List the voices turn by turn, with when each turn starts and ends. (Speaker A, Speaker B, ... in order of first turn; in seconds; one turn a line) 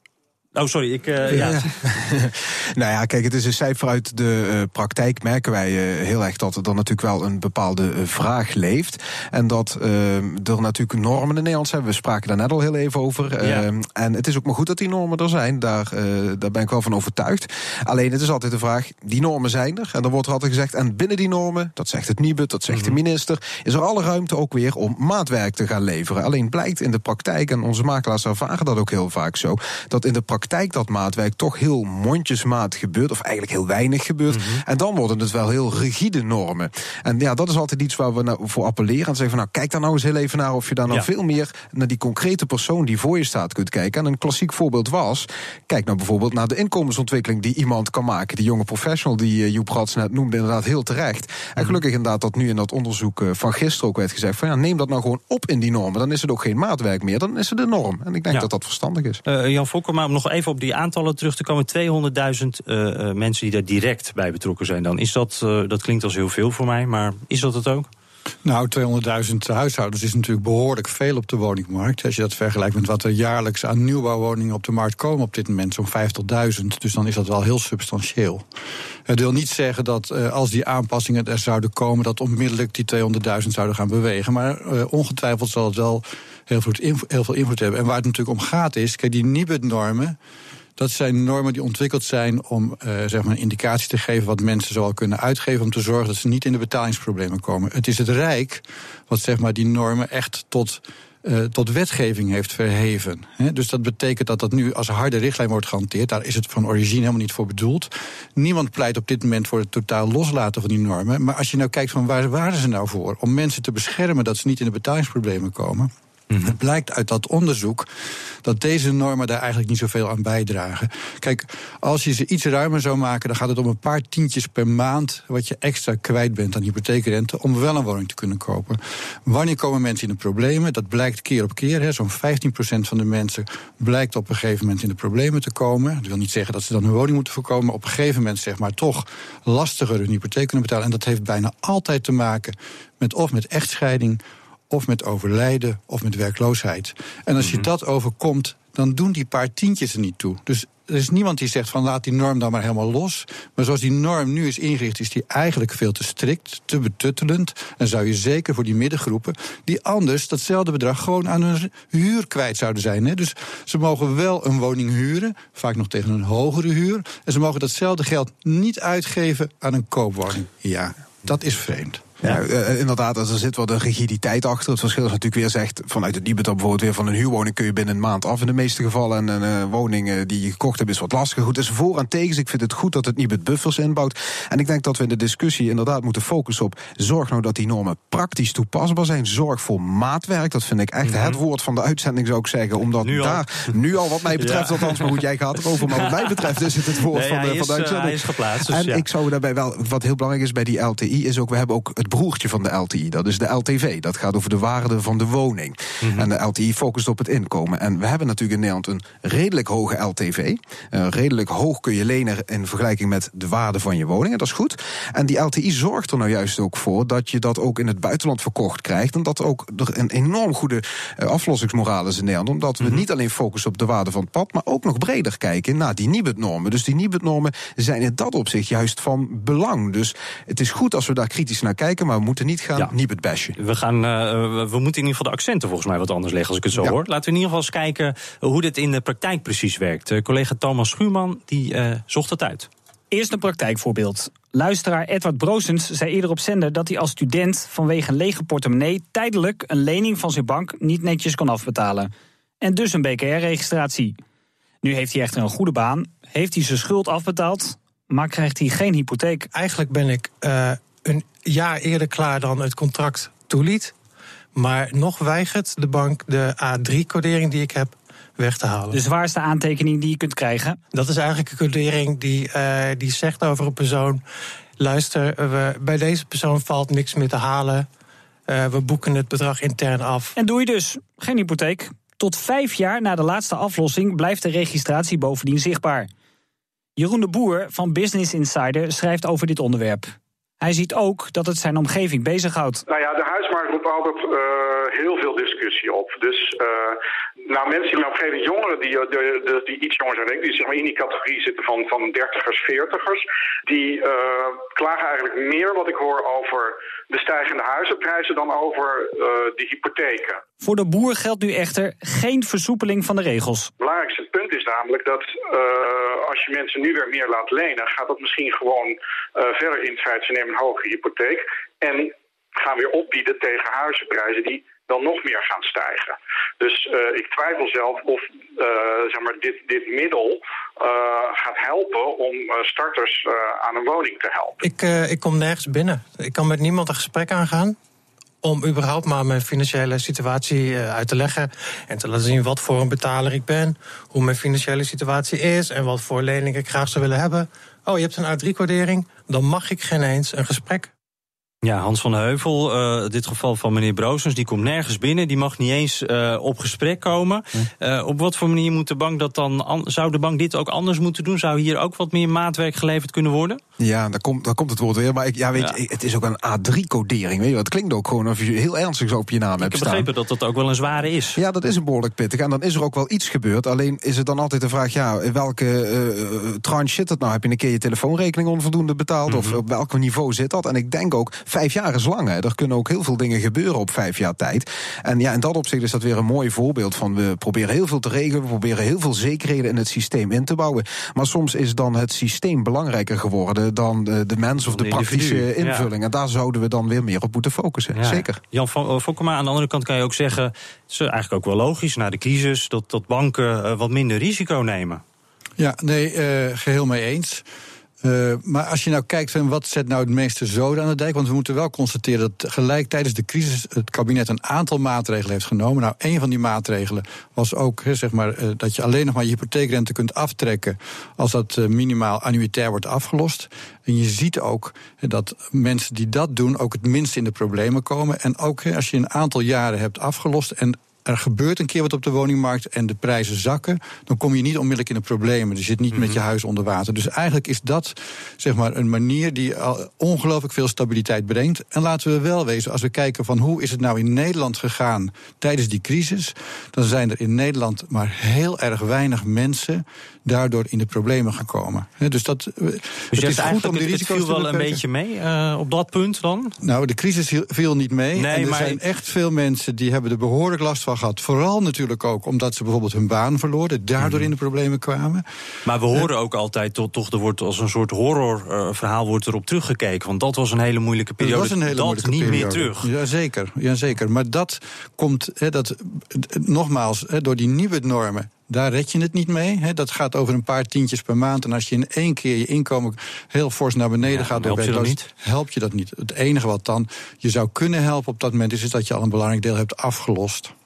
Speaker A: 0.6-1.7
Speaker B: 1.3-59.2
Speaker A: 13.4-13.7
Speaker A: 22.7-23.0
Speaker A: 34.3-34.6
Speaker A: 59.3-67.9
Speaker C: 68.4-78.4
Speaker C: 79.1-90.2
Speaker C: 90.8-115.9
Speaker C: 116.4-117.9
Speaker C: 118.4-172.0
Speaker A: 147.4-147.7
Speaker B: 172.2-233.6
Speaker A: 191.0-191.4
Speaker A: 193.0-193.7
Speaker A: 194.3-195.2
Speaker A: 195.8-199.1
Speaker A: 206.0-206.3
Speaker A: 222.8-223.0
Speaker A: 233.6-242.7
Speaker D: 243.1-252.1
Speaker D: 252.6-254.2
Speaker D: 254.8-259.5
Speaker E: 259.5-263.9
Speaker E: 264.5-269.0
Speaker D: 268.9-270.8
Speaker E: 270.9-274.2
Speaker E: 274.8-277.9
Speaker E: 278.5-280.4
Speaker D: 280.4-286.1
Speaker D: 287.0-292.8
Speaker F: 292.9-310.4
Speaker D: 310.6-313.7
Speaker F: 313.8-334.6
Speaker E: 334.6-337.8
Speaker E: 338.4-350.9
Speaker A: 351.6-363.6
Speaker B: 363.8-370.1
Speaker A: 369.6-371.4
Speaker B: 371.4-398.4
Speaker A: 379.3-379.6
Speaker A: 394.6-395.9
Speaker A: 397.9-405.0
Speaker C: 405.6-407.4
Speaker C: 408.0-454.8
Speaker A: 453.1-456.5
Speaker C: 456.6-465.2
Speaker A: 458.1-458.8
Speaker A: 464.0-464.3
Speaker A: 465.6-472.9
Speaker C: 471.2-490.5
Speaker A: 484.1-485.1